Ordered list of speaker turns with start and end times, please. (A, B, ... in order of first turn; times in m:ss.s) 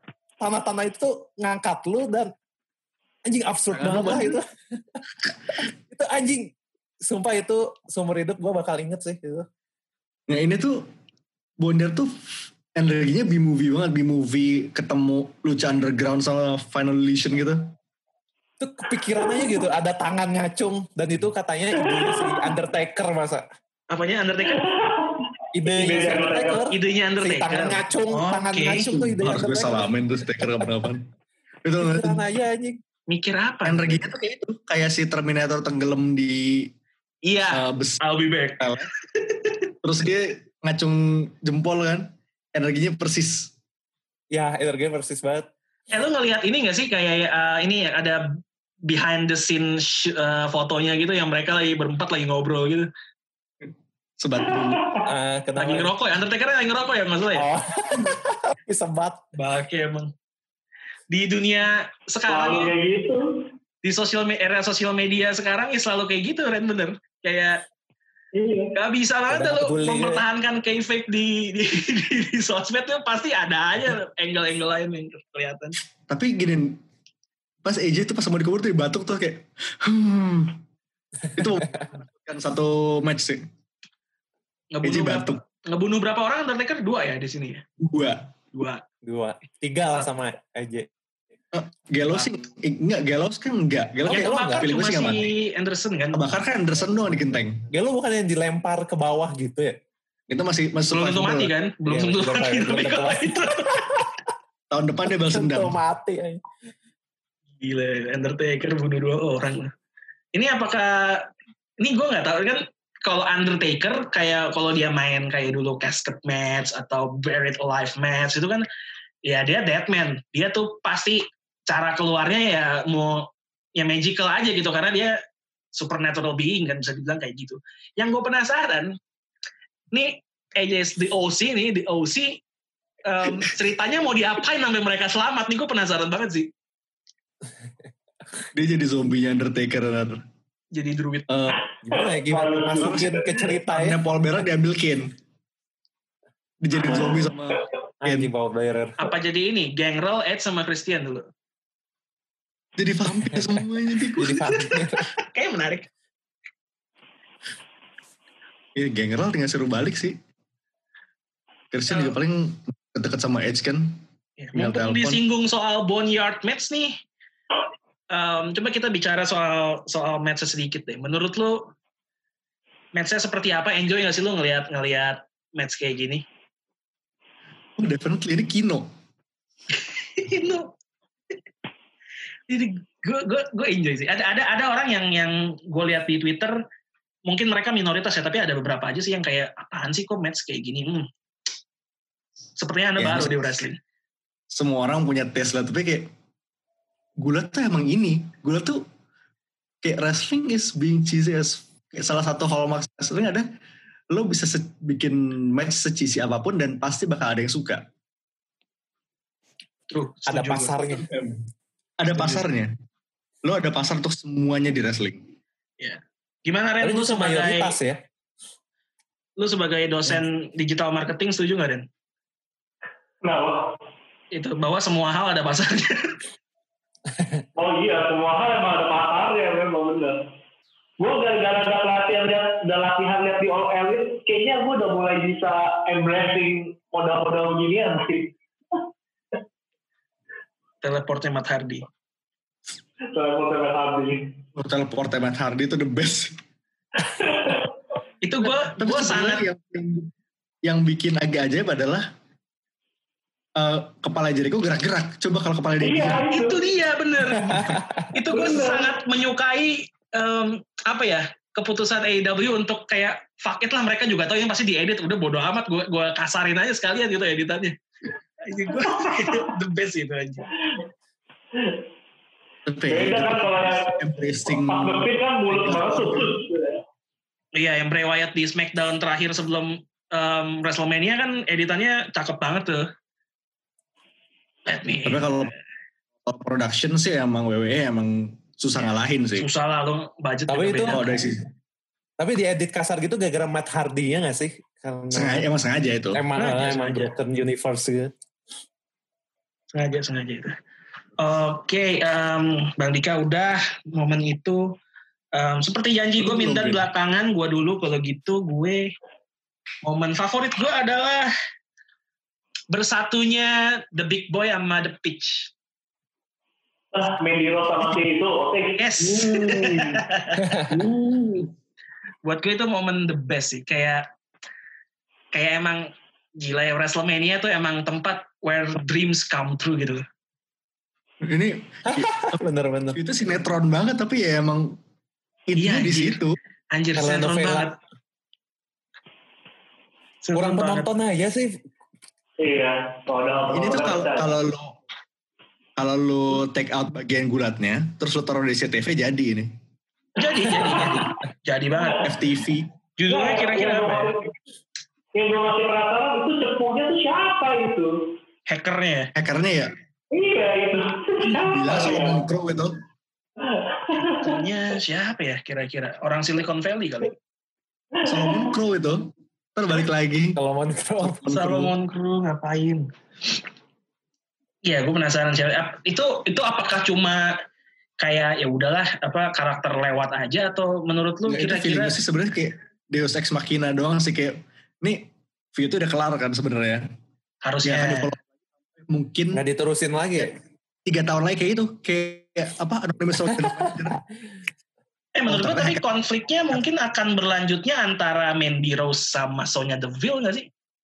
0:00.4-0:02.3 A
0:03.2-0:05.0 A
0:03.7-0:04.4 B
0:05.6-0:06.5 A
0:07.0-0:09.4 A
0:10.3-0:10.9 B
0:11.6-0:17.7 B
0:18.6-0:23.4 A
0:21.9-0:22.4 C
0:23.9-0:24.6 D
0:24.4-0:26.6 C
0:25.5-0:29.9 A
0:26.6-0:28.9 D
0:28.9-0:31.0 B
0:31.6-0:32.2 B
0:31.8-0:32.8 A
0:33.1-0:34.0 D
0:33.6-0:36.7 B
0:37.2-0:39.7 D
0:37.5-0:38.0 B
0:38.6-0:38.9 B
0:39.8-0:43.5 B
0:44.3-0:45.5 A
0:45.9-0:52.9 D
0:53.6-0:54.8 B
0:54.4-0:55.0 C
0:55.0-0:55.9 A
0:55.6-0:57.4 D
0:57.3-0:59.2 A
0:59.3-1:00.1 D
1:01.1-1:02.7 D
1:02.3-1:03.4 C
1:03.8-1:07.6 D
1:08.3-1:08.7 C
1:08.7-1:15.8 D
1:09.3-1:10.2 A
1:16.1-1:16.8 B
1:17.6-1:20.6 B
1:21.3-1:23.4 B
1:21.4-1:21.9 A
1:24.7-1:27.6 D
1:24.8-1:25.4 B
1:27.8-1:28.3 B
1:28.5-1:28.8 D
1:29.0-1:30.9 A
1:31.5-1:35.3 B
1:34.1-1:34.6 A
1:34.1-1:36.3 D
1:36.1-1:37.6 B
1:37.7-1:39.8 A
1:40.3-1:41.5 B
1:40.9-1:43.8 D
1:41.9-1:44.0 A
1:44.7-1:45.8 B
1:45.2-1:46.4 A
1:47.6-1:49.7 D
1:50.3-1:51.3 D
1:51.8-1:58.6 D
1:59.2-2:05.2 D
2:05.7-2:09.0 D
2:09.9-2:12.4 D
2:13.0-2:16.5 D
2:18.5-2:20.2 B
2:20.7-2:21.3 D
2:21.3-2:21.6 B
2:21.8-2:24.0 A
2:21.9-2:23.3 C
2:22.8-2:23.1 B
2:23.7-2:25.1 B
2:26.6-2:28.3 B
2:26.8-2:27.5 C
2:28.0-2:29.0 A
2:29.0-2:31.3 D
2:32.8-2:34.5 B
2:33.1-2:33.6 A
2:34.2-2:35.1 A
2:34.5-2:35.8 D
2:38.8-2:40.2 B
2:41.7-2:44.0 B
2:41.9-2:42.1 D
2:44.4-2:47.0 D
2:44.5-2:45.2 B
2:48.1-2:51.7 D
2:52.9-2:56.2 D
2:57.8-2:58.9 B
2:59.7-3:00.7 D
3:02.5-3:06.6 D
3:07.3-3:11.1 D
3:12.6-3:13.8 D
3:13.0-3:13.6 B
3:14.5-3:16.1 B
3:17.2-3:18.8 B
3:19.8-3:23.5 B
3:24.1-3:27.9 B
3:29.9-3:30.7 D
3:30.3-3:31.0 A
3:30.9-3:31.4 B
3:32.0-3:32.7 B
3:32.2-3:32.4 D
3:33.4-3:35.2 B
3:35.8-3:37.8 D
3:36.8-3:38.0 A
3:39.4-3:41.8 D
3:43.2-3:43.7 C
3:44.3-3:46.1 D
3:47.6-3:50.2 C
3:51.0-3:58.3 C
4:00.8-4:01.8 D
4:03.1-4:04.2 C
4:04.6-4:06.3 B
4:07.1-4:07.7 C
4:08.2-4:09.4 D
4:08.4-4:10.1 B
4:10.6-4:12.1 B
4:13.6-4:16.2 B
4:15.8-4:16.7 C
4:16.3-4:27.7 D
4:17.3-4:18.0 A
4:18.3-4:18.9 C
4:28.4-4:30.5 D
4:28.9-4:29.2 C
4:32.6-4:36.3 B
4:32.9-4:36.8 C
4:37.5-4:42.8 D
4:44.7-4:45.5 D
4:45.0-4:45.5 B
4:46.2-4:49.5 B
4:49.4-4:51.2 D
4:50.5-4:51.0 A
4:50.9-4:51.4 B
4:52.2-4:55.4 A
4:55.1-4:56.2 B
4:56.1-4:58.1 A
4:56.4-4:57.1 D
4:59.7-5:00.5 D
5:01.2-5:04.7 D
5:05.3-5:08.9 D
5:06.2-5:06.8 B
5:09.8-5:11.3 D
5:12.7-5:15.5 D
5:16.9-5:20.0 C
5:18.8-5:20.4 D
5:20.4-5:20.7 A
5:20.7-5:21.5 C
5:22.2-5:24.0 D
5:25.3-5:30.0 D
5:31.2-5:32.4 B
5:31.8-5:33.0 A
5:32.9-5:34.8 B
5:35.5-5:36.4 B
5:35.6-5:36.2 D
5:36.7-5:37.8 D
5:37.0-5:37.7 A
5:40.2-5:40.9 D
5:40.3-5:41.5 A
5:42.4-5:44.3 C
5:43.5-5:44.8 B
5:45.8-5:49.6 B
5:50.2-5:52.1 D
5:52.0-5:52.7 B
5:53.0-5:54.2 D
5:53.1-5:54.3 C
5:55.1-5:58.1 C
5:58.5-5:59.1 D
5:59.1-5:59.7 B
6:00.1-6:02.2 C
6:01.2-6:02.8 B
6:03.4-6:04.4 C
6:04.0-6:07.1 D
6:08.0-6:10.4 B
6:08.1-6:08.5 C
6:10.4-6:11.2 A
6:11.0-6:11.7 B
6:11.2-6:12.9 D
6:14.6-6:17.4 D
6:18.0-6:22.0 D
6:21.2-6:26.8 B
6:27.4-6:28.1 D
6:27.6-6:28.2 B
6:28.8-6:29.4 B
6:29.3-6:30.3 A
6:30.8-6:34.0 B
6:33.3-6:34.0 A
6:35.2-6:40.5 D
6:35.3-6:35.8 B